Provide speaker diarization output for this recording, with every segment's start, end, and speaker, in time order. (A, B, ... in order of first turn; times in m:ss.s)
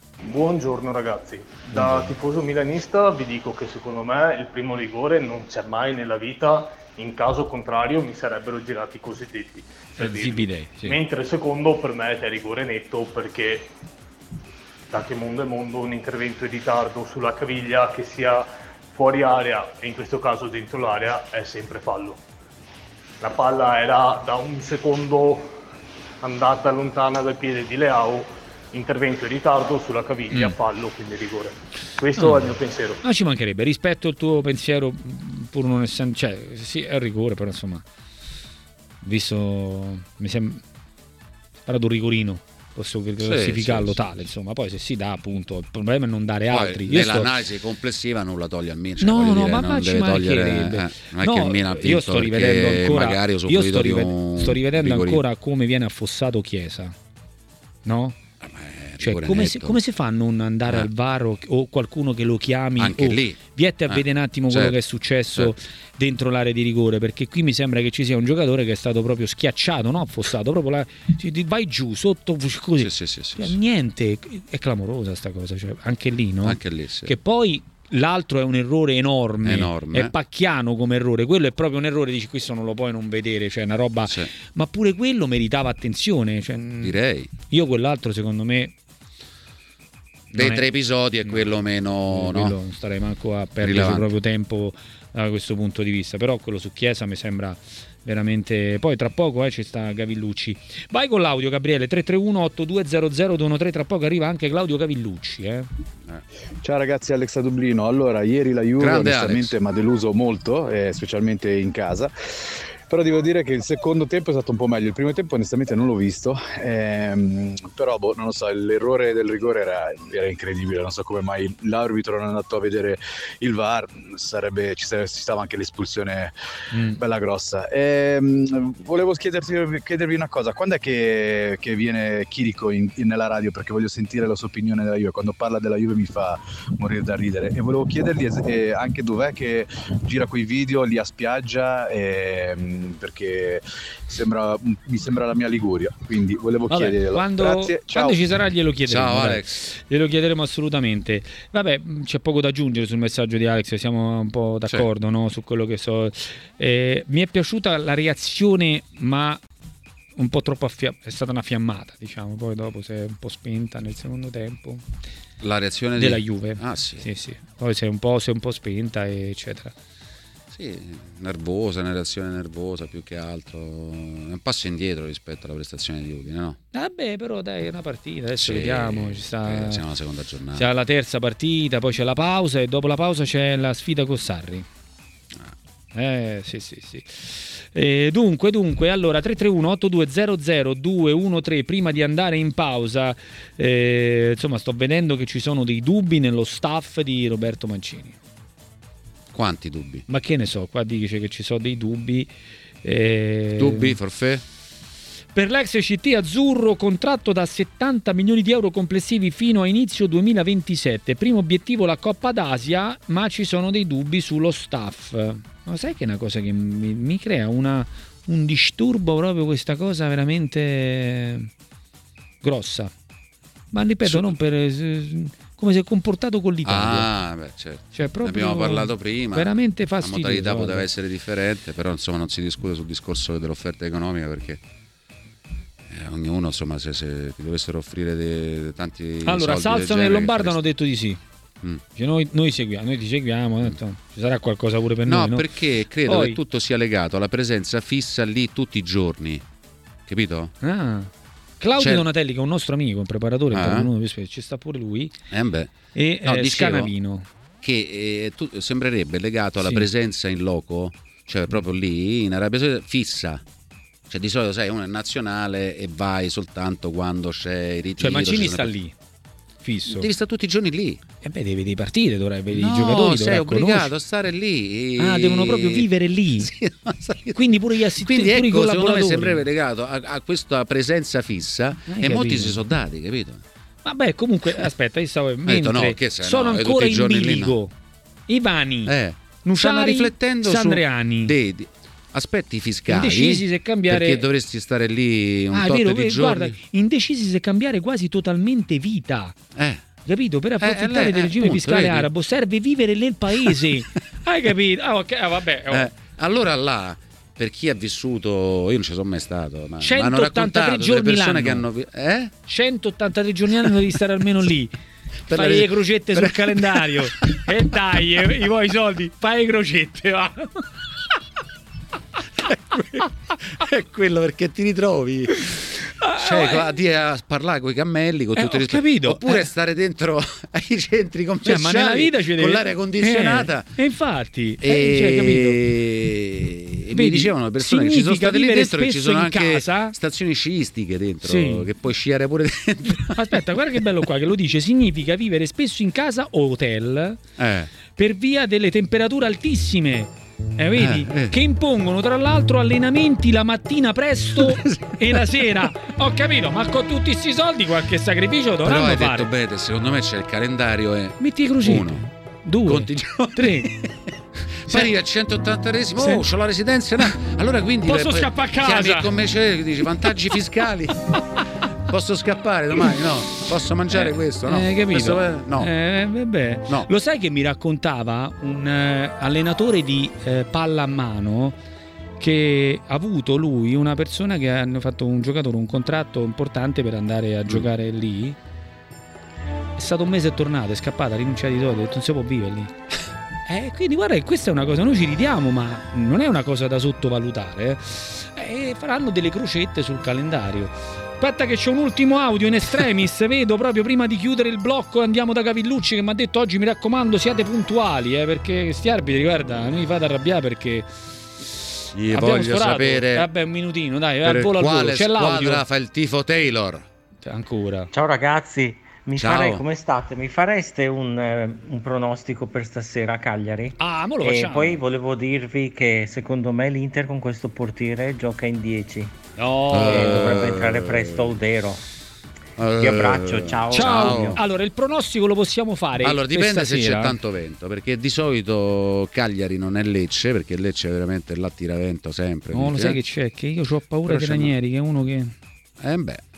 0:00.3-0:13.7 A
0:01.7-0:02.1 B
0:10.0-0:11.0 B
0:14.9-0:22.2 A
0:23.2-0:25.5 A
0:26.2-0:33.0 A
0:32.2-0:37.8 B
0:39.0-0:40.6 B
0:41.6-0:47.3 B
0:43.2-0:44.0 C
0:46.5-0:55.2 C
0:49.0-0:56.9 B
0:57.8-0:58.2 B
0:58.4-0:59.8 C
0:59.0-1:28.7 B
1:02.8-1:04.8 C
1:12.8-1:13.6 C
1:16.4-1:17.1 C
1:19.4-1:20.1 C
1:24.0-1:24.3 C
1:26.8-1:27.3 C
1:30.3-1:30.6 B
1:30.3-1:32.6 C
1:31.2-1:31.5 B
1:32.1-1:45.7 B
1:33.6-1:34.1 C
1:46.6-2:06.3 D
1:48.8-1:49.5 C
2:06.7-2:07.0 B
2:06.9-2:28.2 D
2:26.7-2:39.4 B
2:28.8-2:29.6 C
2:40.2-2:44.8 B
2:45.4-2:47.0 C
2:46.0-2:49.7 B
2:50.5-2:56.6 C
2:56.7-2:59.8 B
2:58.4-3:00.7 C
3:00.5-3:04.6 B
3:05.9-3:18.2 B
3:19.3-3:20.0 C
3:20.1-3:22.3 B
3:22.8-3:24.0 B
3:23.6-3:24.4 C
3:25.3-3:41.5 B
3:42.4-3:42.9 B
3:43.7-3:47.1 B
3:44.0-3:44.4 C
3:46.6-3:54.6 C
3:47.9-3:50.9 B
3:55.9-4:00.6 C
3:59.2-4:01.2 B
4:01.9-4:05.4 B
4:05.0-4:09.4 C
4:06.0-4:06.4 B
4:10.0-4:10.5 C
4:10.6-4:15.1 B
4:11.8-4:12.1 C
4:13.5-4:13.9 C
4:15.3-4:16.9 C
4:15.9-4:17.3 B
4:17.6-4:23.4 C
4:19.6-4:19.8 B
4:24.1-4:28.7 C
4:28.0-4:28.9 B
4:29.6-4:30.1 B
4:29.9-4:31.0 C
4:31.2-4:33.9 B
4:32.5-4:35.9 C
4:35.0-4:36.5 B
4:36.4-4:43.4 C
4:37.3-4:39.4 B
4:41.9-4:42.6 B
4:43.8-4:47.7 B
4:45.4-4:47.6 C
4:48.3-4:51.3 B
4:48.8-4:56.6 C
4:52.9-4:54.2 B
4:55.5-4:59.4 B
4:59.6-4:59.8 C
5:00.0-5:05.9 B
5:00.6-5:02.1 C
5:05.7-5:12.3 C
5:09.8-5:11.6 B
5:12.4-5:14.7 B
5:15.3-5:18.3 C
5:15.3-5:20.6 B
5:22.4-5:33.7 C
5:26.0-5:26.6 B
5:28.3-5:29.4 B
5:31.4-5:35.6 B
5:34.6-5:43.8 C
5:36.9-5:39.9 B
5:41.2-5:41.6 B
5:43.1-5:47.2 B
5:47.4-5:47.7 C
5:47.9-5:59.3 B
5:50.8-5:51.4 C
5:54.4-5:55.7 C
5:58.6-6:02.0 C
6:01.2-6:03.7 B
6:02.6-6:04.0 C
6:04.5-6:15.7 C
6:06.0-6:06.2 B
6:07.8-6:09.1 B
6:13.9-6:21.6 B
6:22.2-6:28.4 B
6:29.8-6:32.7 B
6:33.4-6:50.9 B
6:51.9-6:53.3 C
6:52.1-6:55.6 B
6:54.2-6:56.8 C
6:57.2-6:57.9 B
6:57.9-7:09.2 E
6:59.2-6:59.6 C
7:03.8-7:04.8 B
7:09.4-7:10.5 B
7:09.7-7:11.4 C
7:09.7-7:11.8 E
7:12.6-7:14.4 C
7:12.8-7:14.4 E
7:13.7-7:17.2 B
7:16.0-7:23.0 C
7:22.5-7:25.3 B
7:24.0-7:24.5 C
7:25.8-7:26.3 C